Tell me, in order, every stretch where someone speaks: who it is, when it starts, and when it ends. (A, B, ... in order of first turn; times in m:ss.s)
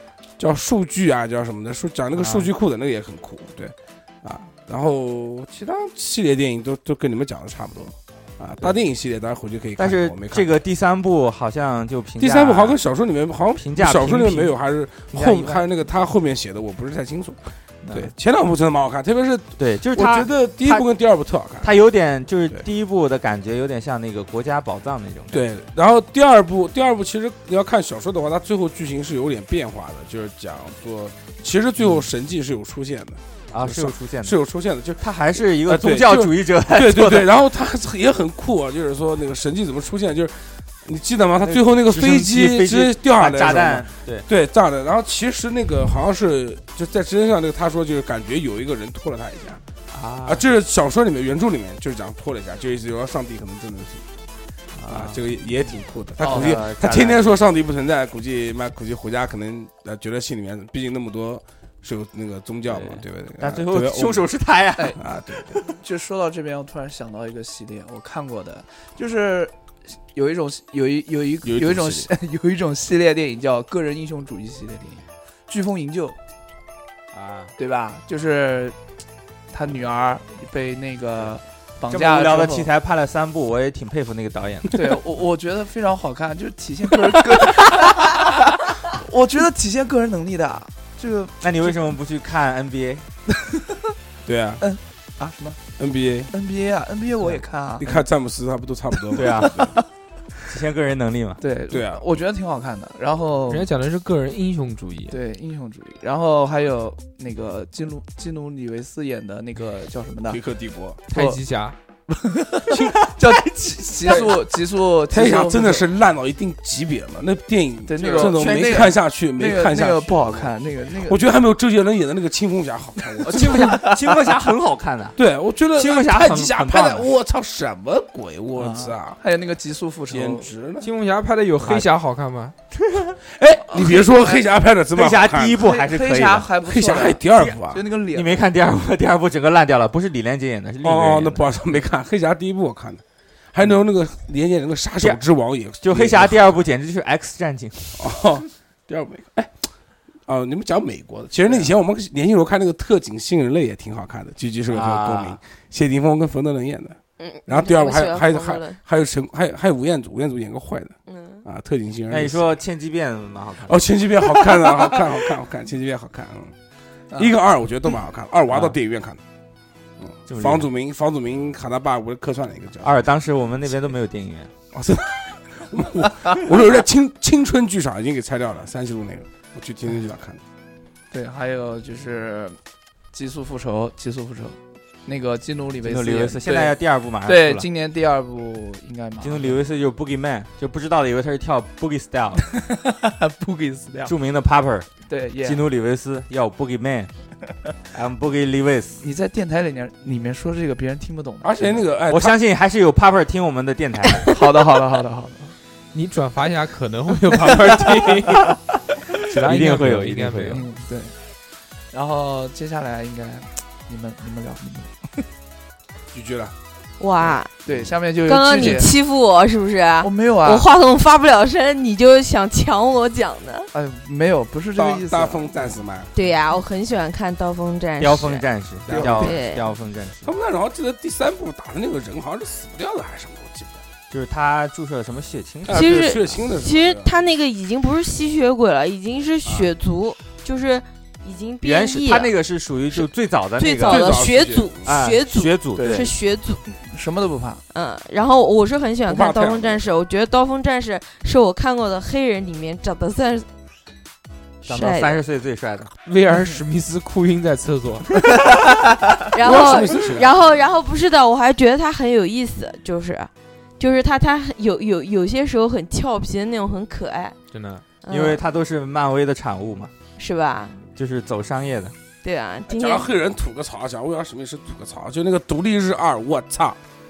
0:00.4-0:10.5 A
0:02.1-0:02.5 B
0:09.8-0:12.8 B
0:12.2-0:21.7 A
0:13.6-0:14.6 B
0:15.1-0:15.6 C
0:17.8-0:18.1 B
0:19.6-0:20.8 B
0:21.6-0:25.4 B
0:25.3-0:49.6 A
0:31.8-0:32.1 B
0:33.5-0:34.4 B
0:35.0-0:37.3 B
0:41.4-0:44.2 B
0:49.9-0:50.4 B
0:50.2-0:54.0 A
0:54.7-0:55.2 B
0:54.9-1:04.3 A
0:56.2-0:57.4 B
0:56.2-0:56.6 C
1:02.7-1:05.0 B
1:05.0-1:05.6 A
1:05.6-1:09.5 C
1:10.1-1:16.2 C
1:11.4-1:12.1 A
1:17.1-1:17.5 B
1:17.6-1:18.8 C
1:19.5-1:22.7 C
1:21.9-1:24.7 B
1:24.7-1:31.9 C
1:31.4-1:33.0 B
1:34.2-1:34.6 A
1:34.6-1:35.6 C
1:35.8-1:36.3 A
1:36.3-1:38.0 C
1:37.8-1:39.7 A
1:39.1-1:39.7 B
1:39.1-1:39.8 C
1:40.4-1:41.4 B
1:41.4-1:43.7 C
1:41.7-1:42.0 A
1:43.5-1:45.2 D
1:45.1-1:50.4 C
1:50.3-1:51.0 A
1:51.1-1:51.8 D
1:51.1-1:51.4 C
1:52.1-1:55.8 C
1:52.7-1:53.1 A
1:54.0-1:54.3 B
1:54.0-1:54.4 A
1:55.1-2:00.5 A
1:57.9-2:01.2 C
1:58.0-1:58.9 B
2:01.0-2:03.6 A
2:03.0-2:04.0 C
2:03.3-2:05.2 B
2:05.2-2:09.2 A
2:05.7-2:07.1 B
2:08.6-2:10.5 C
2:10.1-2:10.9 A
2:10.8-2:12.5 D
2:12.7-2:13.2 B
2:13.3-2:15.6 A
2:13.7-2:14.4 C
2:14.9-2:16.5 B
2:15.6-2:18.4 C
2:16.6-2:17.8 A
2:18.1-2:21.5 B
2:20.8-2:23.0 A
2:23.5-2:26.6 A
2:25.8-2:28.2 B
2:28.0-2:29.6 A
2:30.3-2:40.9 A
2:34.7-2:35.4 B
2:37.2-2:38.8 E
2:41.1-2:41.4 E
2:41.4-2:42.5 A
2:42.1-2:43.8 B
2:43.6-2:46.5 A
2:47.1-2:49.2 A
2:48.5-2:48.7 B
2:50.0-2:52.9 A
2:50.3-2:50.7 B
2:52.8-2:54.5 B
2:54.7-3:00.4 A
3:01.1-3:02.6 C
3:03.1-3:09.6 C
3:05.8-3:07.7 B
3:09.2-3:12.4 B
3:12.6-3:14.1 C
3:14.0-3:14.9 B
3:15.1-3:15.6 C
3:15.4-3:17.1 B
3:17.9-3:19.0 B
3:19.0-3:21.8 C
3:21.4-3:22.3 A
3:22.1-3:24.3 B
3:24.2-3:25.5 C
3:25.9-3:28.5 D
3:29.2-3:30.6 B
3:29.2-3:30.7 D
3:30.5-3:31.1 C
3:31.9-3:35.1 C
3:36.1-3:36.5 A
3:37.0-3:37.5 E
3:37.6-3:38.9 C
3:38.2-3:43.7 E
3:40.0-3:40.7 C
3:43.7-3:45.8 C
3:44.8-3:46.1 A
3:46.1-3:48.4 E
3:48.0-3:50.3 B
3:48.9-3:49.3 C
3:48.9-3:49.3 A
3:49.0-3:49.6 E
3:50.2-3:53.8 A
3:54.1-3:56.2 B
3:55.6-3:57.1 A
3:55.7-4:02.3 E
4:01.6-4:04.2 B
4:03.6-4:06.6 E
4:03.8-4:04.9 A
4:04.8-4:06.1 B
4:05.8-4:06.1 C
4:06.7-4:07.6 C
4:07.7-4:13.5 E
4:09.1-4:09.8 A
4:14.6-4:15.2 E
4:14.6-4:15.9 B
4:16.0-4:18.1 D
4:19.3-4:27.4 E
4:19.4-4:20.3 A
4:27.5-4:27.8 D
4:28.0-4:28.4 E
4:28.1-4:29.9 B
4:30.2-4:30.8 E
4:31.0-4:31.9 B
4:32.2-4:33.1 E
4:32.7-4:36.8 A